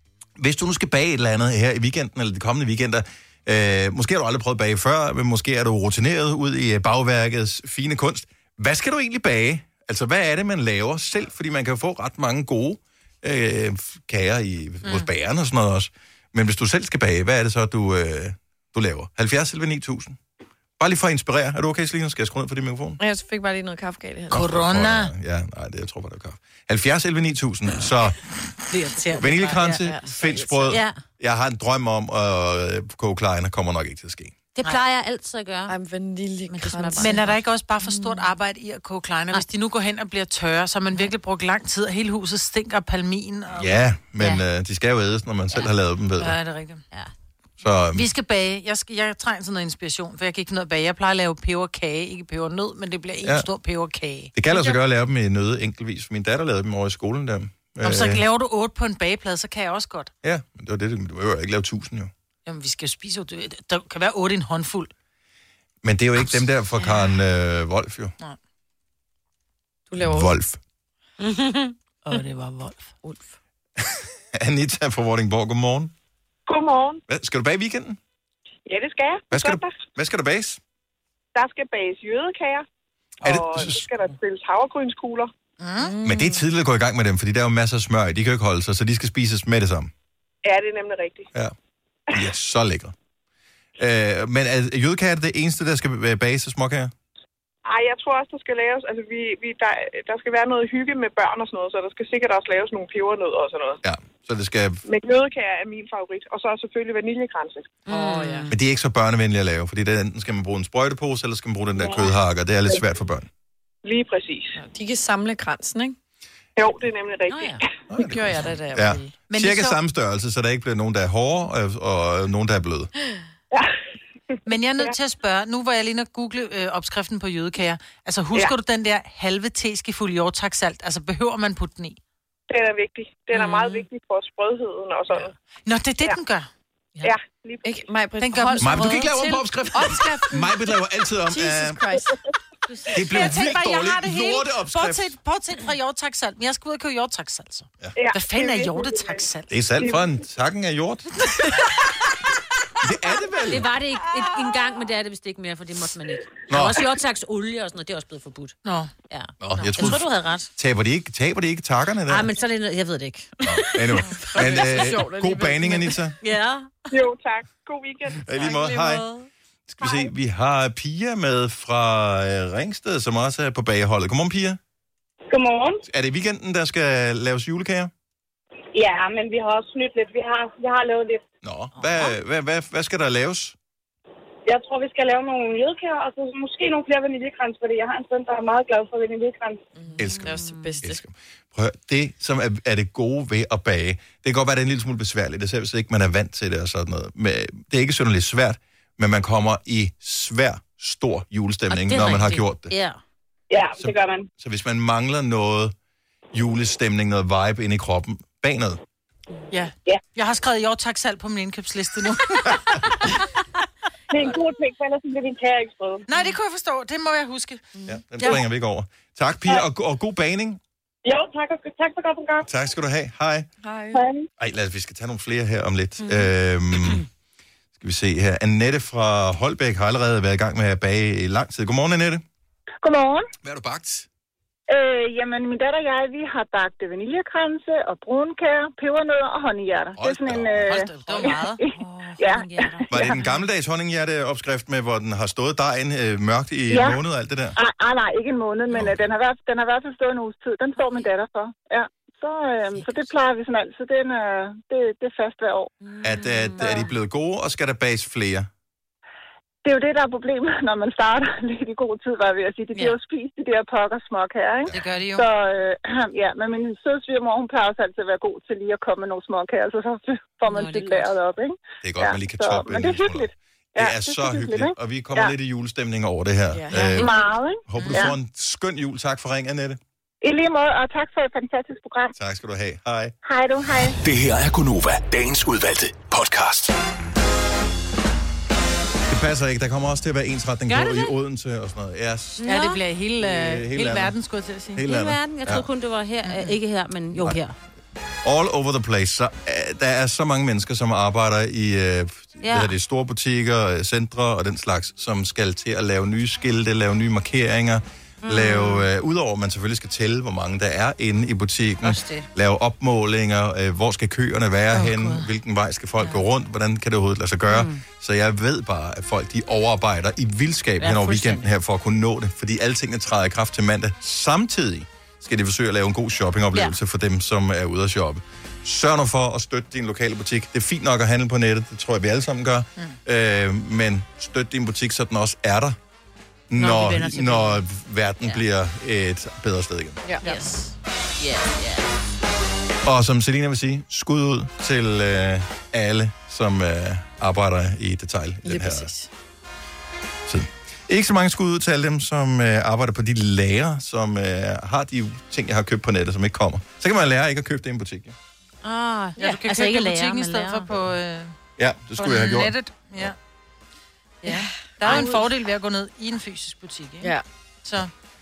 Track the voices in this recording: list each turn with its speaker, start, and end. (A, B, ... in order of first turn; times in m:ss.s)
0:00.4-0:20.2 A
0:14.8-0:15.1 B
0:20.8-0:23.0 A
0:23.0-0:24.5 C
0:24.3-0:25.1 B
0:24.3-0:28.2 A
0:28.7-0:29.7 B
0:28.8-0:29.5 D
0:29.1-0:34.3 A
0:29.7-0:30.8 C
0:30.7-0:31.0 D
0:34.5-0:35.7 D
0:35.7-0:37.2 C
0:36.5-0:37.4 D
0:37.0-0:43.7 B
0:43.5-0:46.4 A
0:46.2-0:46.8 B
0:47.6-0:48.1 A
0:47.9-0:54.3 B
0:54.3-0:58.2 A
0:57.8-1:00.1 B
1:00.2-1:02.1 A
1:02.4-1:04.9 B
1:05.8-1:08.1 A
1:09.9-1:10.3 C
1:10.0-1:10.6 A
1:11.2-1:11.7 D
1:12.0-1:12.9 B
1:13.0-1:13.3 C
1:13.8-1:15.9 A
1:16.5-1:17.0 E
1:17.1-1:18.0 A
1:18.6-1:19.7 E
1:19.3-1:20.6 A
1:21.3-1:22.6 E
1:23.2-1:23.9 A
1:23.2-1:25.3 E
1:25.6-1:25.9 B
1:25.8-1:26.4 C
1:26.0-1:29.9 A
1:30.4-1:31.3 E
1:32.1-1:32.9 A
1:33.8-1:36.9 A
1:37.6-1:43.8 E
1:43.8-1:44.8 A
1:44.8-1:47.8 E
1:47.9-1:48.5 D
1:47.9-1:48.4 C
1:48.5-1:53.3 A
1:53.8-1:54.6 E
1:54.6-1:56.0 C
1:56.6-1:57.5 E
1:57.3-1:57.6 D
1:57.9-2:02.9 A
1:58.0-1:59.1 C
1:59.3-1:59.8 B
2:04.4-2:12.0 B
2:12.5-2:15.3 E
2:13.4-2:13.7 D
2:15.6-2:16.5 B
2:17.0-2:17.8 E
2:17.6-2:20.5 C
2:18.2-2:19.1 B
2:18.6-2:22.0 A
2:21.3-2:22.2 C
2:22.7-2:23.0 D
2:22.9-2:29.6 B
2:22.9-2:25.1 A
2:28.0-2:29.2 E
2:29.5-2:31.6 A
2:32.8-2:33.7 A
2:33.5-2:38.6 D
2:36.5-2:36.8 A
2:38.6-2:38.9 B
2:39.1-2:40.5 D
2:39.4-2:40.0 A
2:40.6-2:42.3 A
2:42.1-2:44.8 D
2:43.4-2:46.2 A
2:44.1-2:46.0 C
2:46.2-2:46.9 D
2:46.9-2:48.3 E
2:48.2-2:49.0 A
2:48.4-2:49.2 D
2:49.7-2:54.6 A
2:55.3-2:55.8 F
2:55.8-2:57.9 A
2:58.7-3:01.2 F
3:01.4-3:03.5 A
3:04.4-3:09.6 F
3:09.8-3:11.0 C
3:10.0-3:22.7 A
3:10.0-3:10.7 D
3:21.7-3:23.0 D
3:23.5-3:24.2 F
3:23.8-3:25.7 A
3:26.3-3:28.8 A
3:29.5-3:33.1 B
3:34.1-3:36.0 F
3:36.1-3:38.4 B
3:37.8-3:40.6 A
3:41.0-3:42.5 F
3:42.4-3:43.5 A
3:43.6-3:44.0 C
3:43.9-3:44.2 F
3:44.4-3:47.0 A
3:46.0-3:46.3 D
3:47.8-3:52.2 A
3:52.8-3:53.3 G
3:53.4-3:54.1 A
3:54.7-4:03.2 G
4:00.0-4:00.7 A
4:00.5-4:02.1 B
4:01.1-4:03.3 D
4:02.9-4:07.6 A
4:06.7-4:07.0 G
4:07.6-4:15.7 G
4:08.7-4:09.0 A
4:15.8-4:16.9 D
4:16.0-4:18.5 A
4:19.6-4:35.3 G
4:24.7-4:25.2 B
4:30.5-4:30.9 D
4:30.5-4:31.0 B
4:31.8-4:37.2 A
4:36.5-4:37.1 C
4:36.9-4:38.1 G
4:37.7-4:39.8 A
4:40.2-4:42.1 G
4:42.2-4:43.1 A
4:43.2-4:44.0 G
4:44.0-4:46.7 H
4:49.1-4:52.4 A
4:50.7-4:51.1 D
4:52.4-4:52.8 D
4:52.4-4:54.8 B
4:53.2-4:54.1 A
4:54.7-4:55.6 A
4:54.8-4:57.5 D
4:56.2-4:56.5 B
4:58.2-5:35.8 A
5:02.4-5:02.7 D
5:08.2-5:08.9 D
5:11.8-5:12.3 D
5:14.7-5:15.3 B
5:17.5-5:17.8 D
5:20.8-5:21.4 D
5:36.5-5:40.0 A
5:36.6-5:37.6 D
5:40.2-5:41.9 D
5:42.8-5:48.9 A
5:48.4-5:49.1 C
5:50.3-5:58.1 A
5:58.6-6:00.7 D
5:59.2-6:01.3 B
6:01.6-6:03.1 A
6:02.0-6:03.2 B
6:04.2-6:07.9 B
6:04.2-6:05.2 D
6:04.3-6:05.2 C